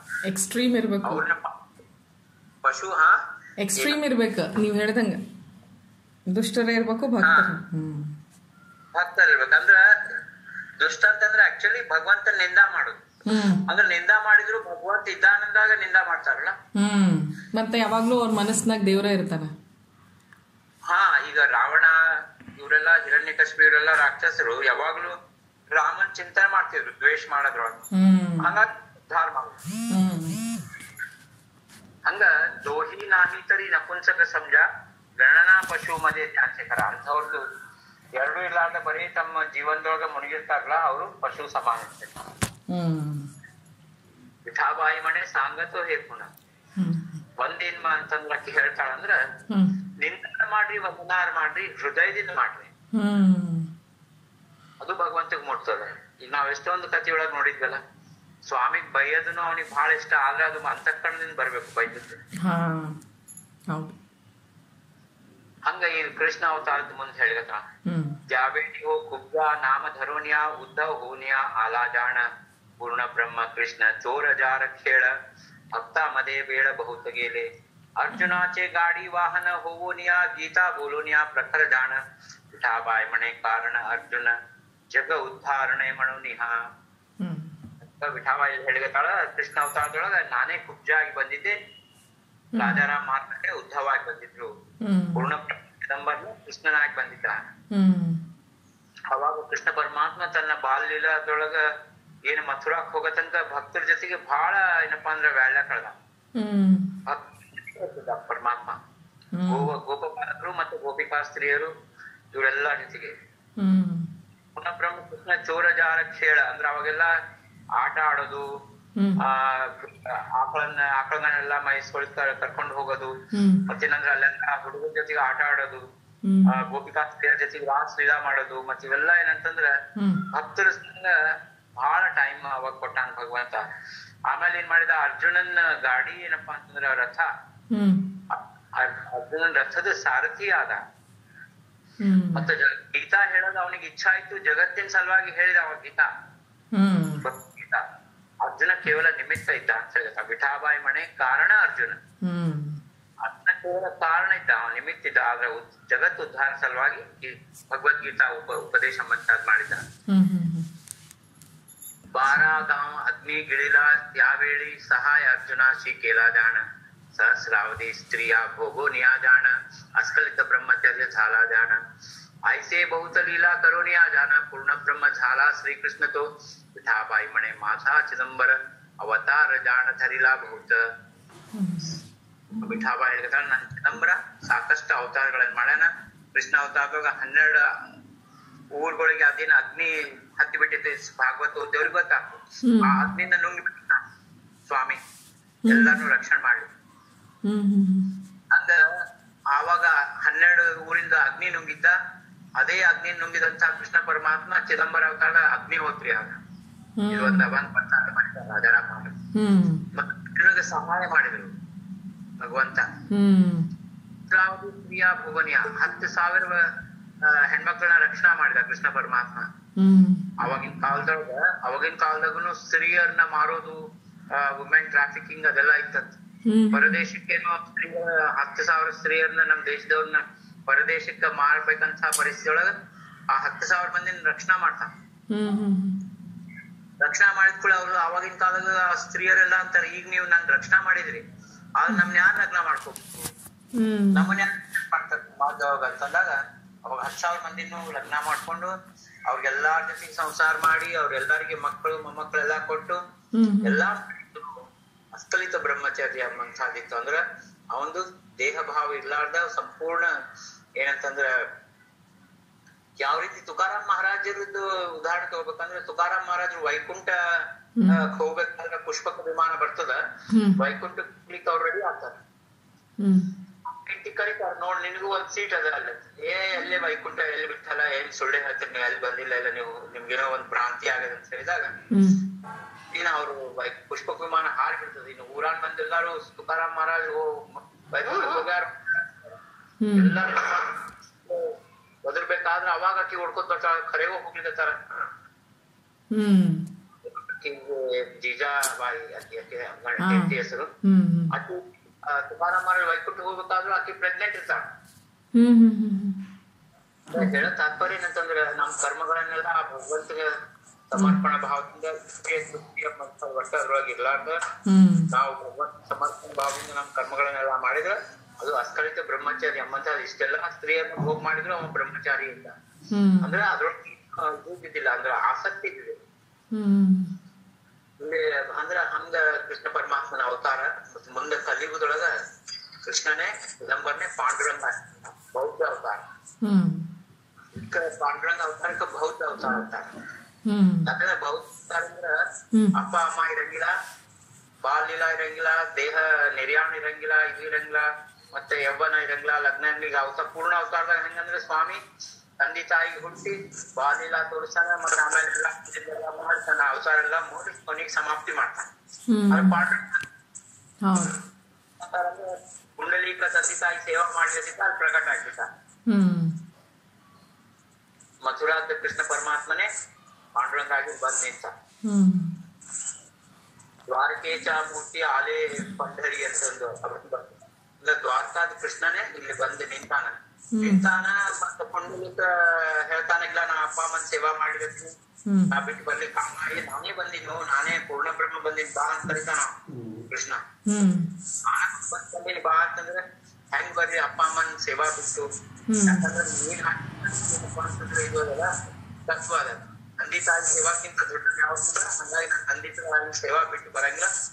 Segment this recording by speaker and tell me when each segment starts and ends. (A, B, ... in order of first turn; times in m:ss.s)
0:00.2-0:01.2 A
0:01.0-0:01.5 B
0:02.6-0:03.2 B
0:03.6-0:05.2 A
0:06.3-0:08.1 A
0:07.2-0:07.6 B
0:08.9-0:10.1 B
0:10.8-0:13.0 B
0:13.3-0:13.6 A
0:13.7-0:16.5 B
0:16.8-0:19.5 A
0:20.9-0:22.0 B
0:22.6-0:25.2 B
0:25.7-0:27.8 B
0:27.9-0:28.5 A
0:28.4-0:29.6 B
0:29.9-0:30.4 A
0:32.1-0:34.6 B
0:35.2-0:37.4 B
0:38.2-0:42.1 B
0:42.7-0:43.3 A
0:44.5-0:46.3 B
0:46.8-0:47.2 A
0:47.4-0:49.2 B
0:49.5-0:49.8 A
0:50.0-0:52.7 B
0:52.9-0:53.7 A
0:54.8-0:57.8 B
0:58.4-1:02.2 B
1:02.4-1:03.0 A
1:03.7-1:04.0 A
1:05.6-1:07.6 B
1:07.9-1:08.2 A
1:08.3-1:12.2 B
1:12.8-1:15.1 B
1:15.7-1:17.5 B
1:18.0-1:22.0 B
1:18.1-1:18.4 A
1:22.5-1:24.3 B
1:24.9-1:26.6 B
1:27.2-1:27.5 A
1:27.8-1:31.6 B
1:32.5-1:32.8 A
1:32.6-1:34.5 B
1:34.8-1:35.3 A
1:35.1-1:37.4 B
1:37.7-1:38.2 A
1:39.1-1:41.6 B
1:42.2-1:46.0 B
1:46.4-1:46.9 A
1:47.0-1:48.8 B
1:49.3-1:49.7 A
1:49.5-1:51.7 B
1:52.3-1:53.1 B
1:53.6-1:54.1 A
1:54.6-1:57.1 B
1:57.8-1:58.5 B
1:59.0-1:59.2 A
1:59.2-2:03.1 B
2:03.3-2:03.6 A
2:03.7-2:05.8 B
2:06.2-2:06.6 A
2:06.5-2:09.8 B
2:10.0-2:10.2 A
2:10.3-2:11.2 B
2:11.8-2:13.6 B
2:14.3-2:17.3 B
2:17.7-2:18.1 A
2:18.3-2:20.8 B
2:22.0-2:22.5 A
2:22.3-2:26.1 B
2:26.7-2:27.2 A
2:27.2-2:27.8 B
2:28.4-2:32.0 B
2:32.2-2:32.8 A
2:33.2-2:39.8 B
2:40.1-2:40.7 A
2:42.1-2:46.6 B
2:47.1-2:51.8 B
2:52.5-3:00.8 B
3:01.5-3:01.9 A
3:02.6-3:07.6 B
3:08.7-3:14.0 B
3:12.6-3:13.0 A
3:14.7-3:15.0 B
3:15.6-3:16.0 A
3:15.7-3:16.7 B
3:17.4-3:18.1 A
3:18.5-3:18.8 B
3:19.5-3:21.9 B
3:22.6-3:26.3 B
3:27.0-3:27.5 A
3:27.1-3:29.1 B
3:29.3-3:29.8 A
3:29.9-3:31.5 B
3:32.4-3:32.9 B
3:33.1-3:33.7 A
3:34.3-3:36.7 B
3:37.2-3:39.5 B
3:39.8-3:40.3 A
3:40.4-3:43.8 B
3:44.3-3:46.2 B
3:46.4-3:47.0 A
3:46.7-3:52.7 B
3:53.3-3:54.9 B
3:55.3-3:56.0 A
3:57.0-4:01.2 B
4:01.8-4:03.3 B
4:03.7-4:04.3 A
4:04.1-4:08.7 B
4:09.3-4:13.0 B
4:13.3-4:13.8 A
4:13.6-4:17.2 B
4:17.7-4:20.1 B
4:20.8-4:21.4 B
4:23.0-4:27.2 B
4:27.8-4:28.0 A
4:27.9-4:30.0 B
4:30.3-4:30.6 A
4:30.6-4:32.2 B
4:33.0-4:33.3 A
4:33.7-4:41.7 B
4:41.9-4:42.2 A
4:42.9-4:49.2 B
4:49.8-4:50.1 A
4:50.0-4:51.5 B
4:52.0-4:54.8 B
4:56.1-4:56.6 A
4:57.0-5:00.7 B
5:00.0-5:01.3 A
5:01.3-5:04.6 B
5:05.3-5:06.2 A
5:07.1-5:10.3 B
5:07.1-5:07.4 A
5:10.9-5:14.4 B
5:11.0-5:11.2 A
5:14.6-5:15.1 A
5:15.1-5:22.6 B
5:22.9-5:23.3 A
5:23.2-5:26.0 B
5:26.5-5:27.1 A
5:28.0-5:32.1 B
5:32.8-5:36.0 B
5:36.4-5:36.9 A
5:37.6-5:39.9 B
5:40.4-5:40.9 A
5:40.8-5:42.2 B
5:42.7-5:43.7 B
5:44.6-5:51.8 B
5:52.4-5:58.7 B
5:59.1-5:59.6 A
5:59.3-6:00.0 B
6:00.8-6:01.1 A
6:01.8-6:05.5 B
6:05.9-6:06.3 A
6:08.2-6:09.7 B
6:10.4-6:11.5 B
6:11.8-6:12.3 A
6:13.9-6:24.9 B
6:20.6-6:20.9 A
6:25.3-6:25.5 A
6:25.5-6:29.6 B
6:30.1-6:30.4 B
6:30.7-6:31.1 A
6:31.4-6:35.3 B
6:35.7-6:36.1 A
6:35.8-6:38.5 B
6:39.1-6:44.1 B